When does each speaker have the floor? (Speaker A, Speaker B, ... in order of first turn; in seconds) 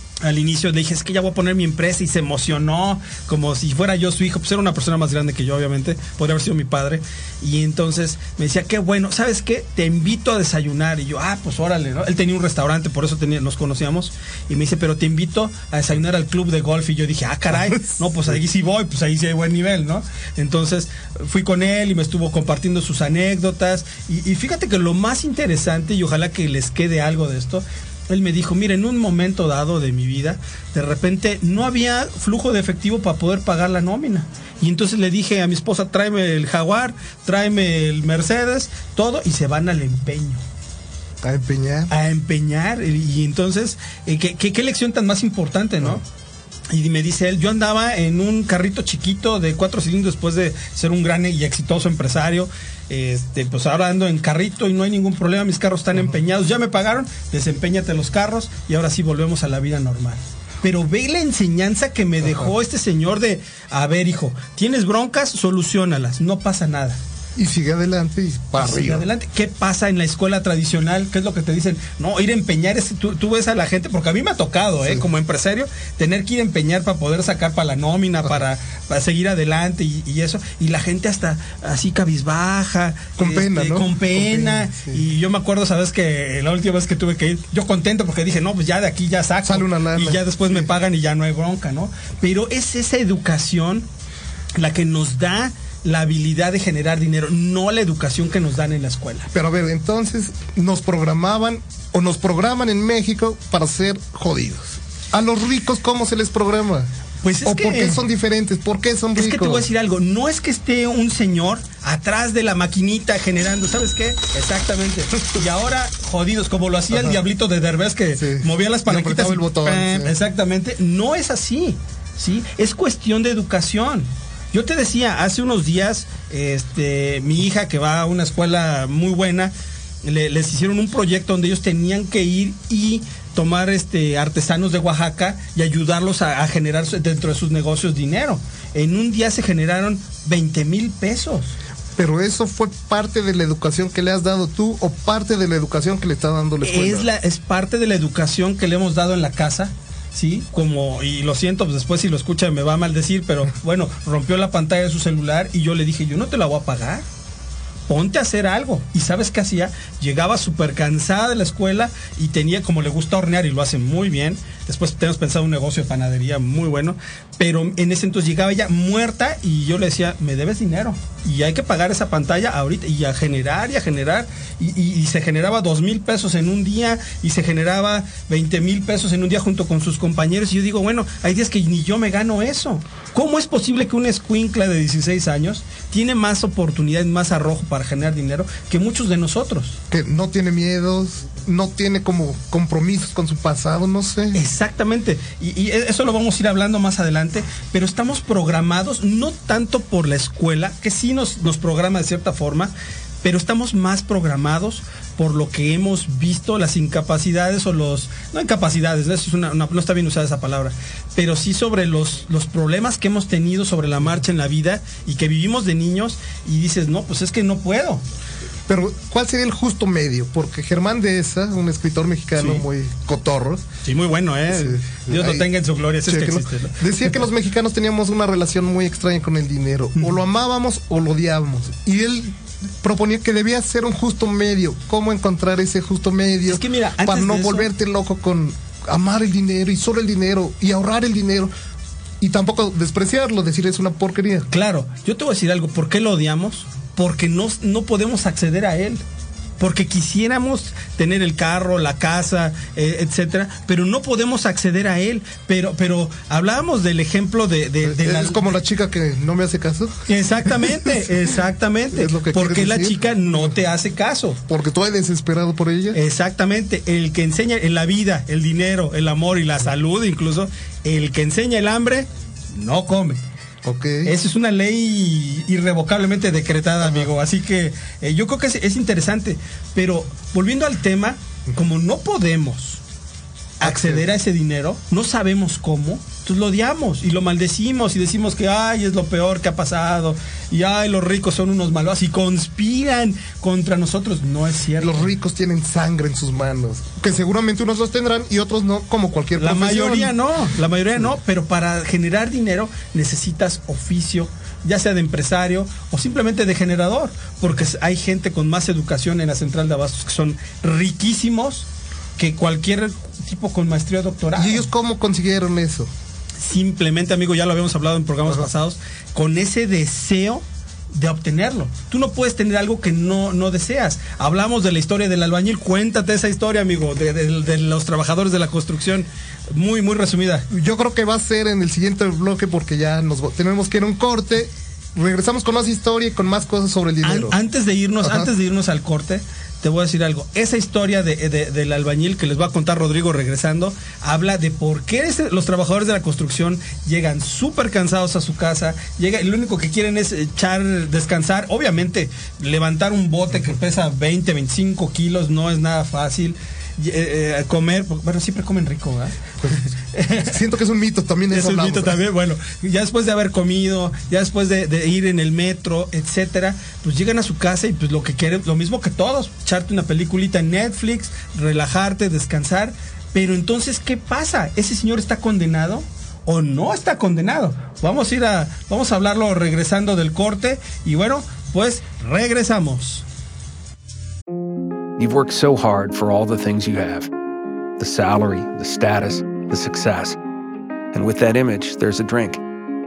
Speaker A: 0.2-40.4, 41.9-46.0, 46.7-67.0, 68.5-93.9, 94.5-99.3, 107.2-108.0, 109.1-129.5, 130.0-141.5, 146.6-157.1, 157.9-189.8, 194.3-218.0, 222.4-222.6, 223.8-227.1, 236.4-237.7, 244.5-249.0, 249.6-258.4, 260.1-264.4, 265.9-273.2, 274.0-282.8, 283.6-295.1, 299.4-311.6, 312.2-314.6, 316.4-330.5, 337.0-359.1, 359.9-360.3, 361.3-383.0
Speaker B: 17.5-18.0, 41.2-41.9, 62.2-62.5, 67.3-69.1, 83.2-85.0, 89.4-90.7, 99.3-106.9, 107.4-109.7, 116.9-117.2, 118.2-120.1, 141.9-147.1, 189.9-194.4, 218.7-223.6, 224.5-225.5, 226.1-241.5, 242.2-244.5, 257.8-261.0, 261.9-263.6, 264.5-266.0, 273.6-274.1, 283.6-284.0, 294.8-300.2, 314.4-315.9, 330.5-337.4, 338.0-338.3, 359.4-362.0
Speaker C: 385.0-387.1, 387.8-390.2, 390.9-392.4